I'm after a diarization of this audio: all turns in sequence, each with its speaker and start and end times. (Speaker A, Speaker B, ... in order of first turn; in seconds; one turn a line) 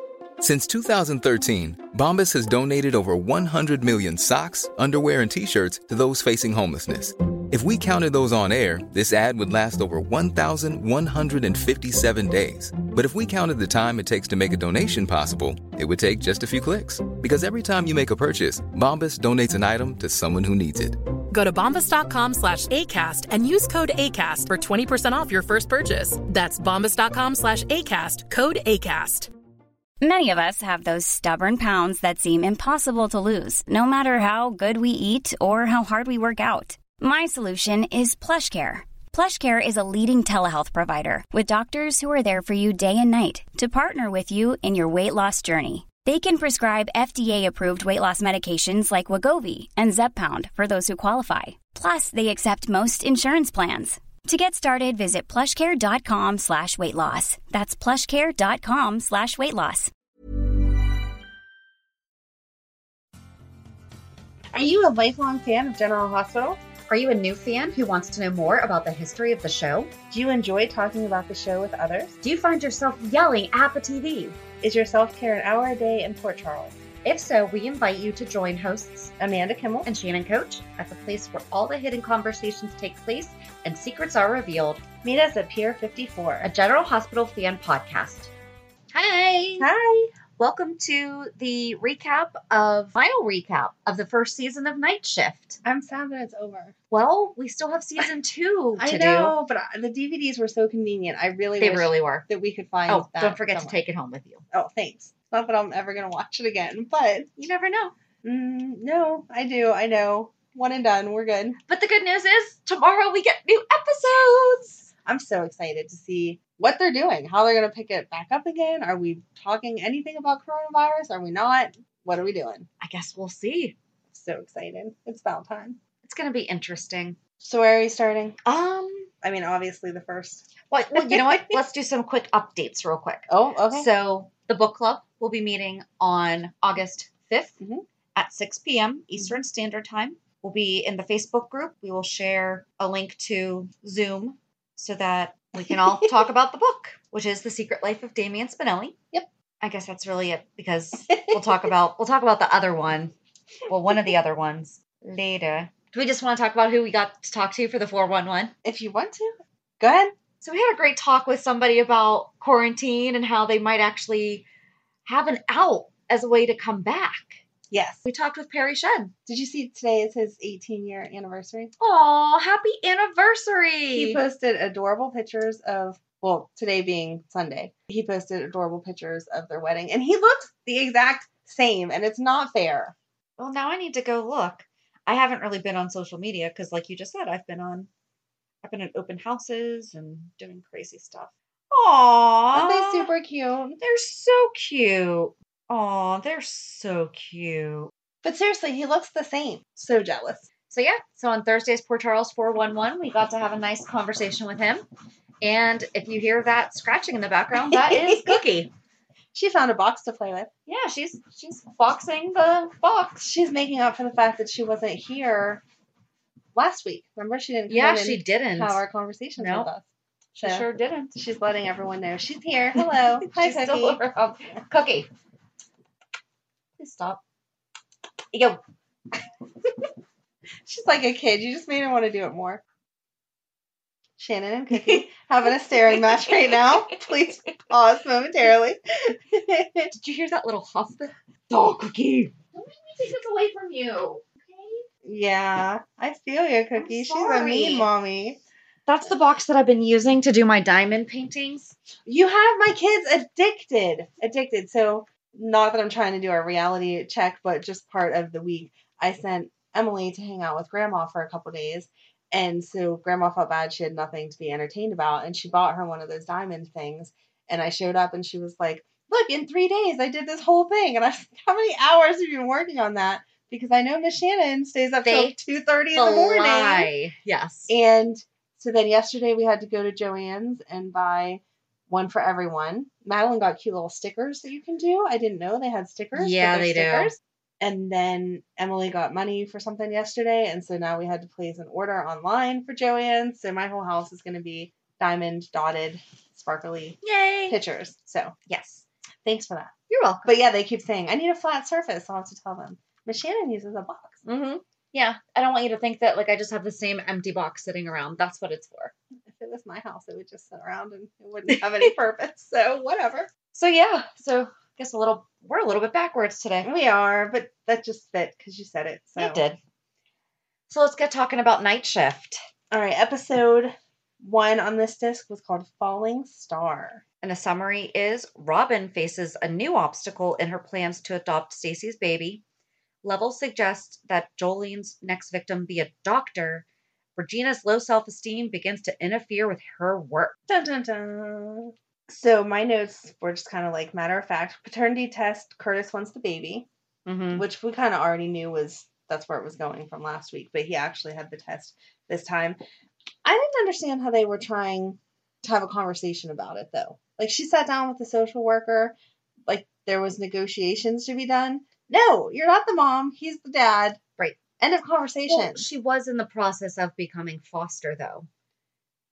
Speaker A: 0.4-21.0
Speaker B: 21.3-29.3
Speaker C: 30.0-59.9
Speaker D: 64.5-66.6
Speaker E: 66.9-69.9
Speaker D: 70.1-72.1
Speaker E: 72.2-74.3
Speaker D: 74.6-76.8
Speaker E: 77.0-79.1
Speaker D: 79.2-79.9
Speaker E: 79.8-84.8
Speaker D: 85.0-86.5
Speaker E: 86.4-88.3
Speaker E: 88.9-89.7
Speaker D: 89.6-90.1
Speaker E: 90.4-95.6
Speaker D: 95.6-96.7
Speaker E: 96.9-99.3
Speaker D: 98.8-103.8
Speaker E: 101.6-102.2
Speaker E: 102.9-104.4
Speaker D: 104.5-107.3
Speaker E: 107.4-107.9
Speaker D: 108.2-111.6
Speaker E: 111.7-114.8
Speaker D: 115.0-122.7
Speaker E: 122.8-123.8
Speaker D: 124.1-125.8
Speaker E: 126.0-127.2
Speaker D: 127.4-128.4
Speaker E: 128.4-129.1
Speaker D: 129.2-131.6
Speaker E: 130.7-137.6
Speaker D: 133.3-133.9
Speaker E: 138.1-149.0
Speaker E: 149.6-153.1
Speaker D: 151.1-151.5
Speaker E: 153.7-158.5
Speaker D: 158.6-160.1
Speaker E: 160.4-164.4
Speaker E: 165.0-167.4
Speaker D: 167.7-168.0
Speaker E: 168.0-169.1
Speaker D: 169.3-171.7
Speaker E: 171.8-174.2
Speaker D: 173.9-182.9
Speaker E: 183.4-187.9
Speaker E: 188.6-193.1
Speaker D: 192.5-193.8
Speaker E: 193.8-197.9
Speaker D: 198.2-200.5
Speaker E: 200.7-204.8
Speaker E: 205.4-208.7
Speaker D: 207.7-208.4
Speaker D: 209.3-210.5
Speaker E: 210.7-213.2
Speaker D: 213.2-215.6
Speaker D: 216.5-219.8
Speaker E: 217.7-218.8
Speaker E: 219.4-219.7
Speaker E: 220.3-221.2
Speaker D: 220.4-224.0
Speaker E: 222.8-225.1
Speaker E: 226.8-227.2
Speaker E: 228.3-228.6
Speaker D: 230.7-232.6
Speaker D: 234.2-239.9
Speaker E: 236.2-236.6
Speaker E: 239.9-244.8
Speaker D: 245.0-248.4
Speaker E: 246.8-247.9
Speaker E: 248.9-251.8
Speaker D: 252.1-276.9
Speaker E: 275.0-275.4
Speaker E: 275.9-277.7
Speaker D: 277.7-298.3
Speaker E: 286.1-287.1
Speaker E: 297.0-297.6
Speaker E: 298.5-298.8
Speaker D: 299.2-299.7
Speaker E: 299.9-300.3
Speaker D: 300.2-304.2
Speaker E: 304.2-308.9
Speaker D: 309.3-313.3
Speaker E: 313.5-316.7
Speaker D: 316.6-319.4
Speaker E: 319.2-319.6
Speaker E: 320.7-322.4
Speaker D: 322.7-327.0
Speaker E: 327.2-332.4
Speaker E: 333.0-336.6
Speaker E: 337.2-340.4
Speaker D: 340.5-346.7
Speaker E: 347.1-347.4
Speaker D: 347.3-352.6
Speaker D: 353.2-358.9
Speaker D: 359.5-364.0
Speaker D: 364.6-365.6
Speaker E: 365.3-368.3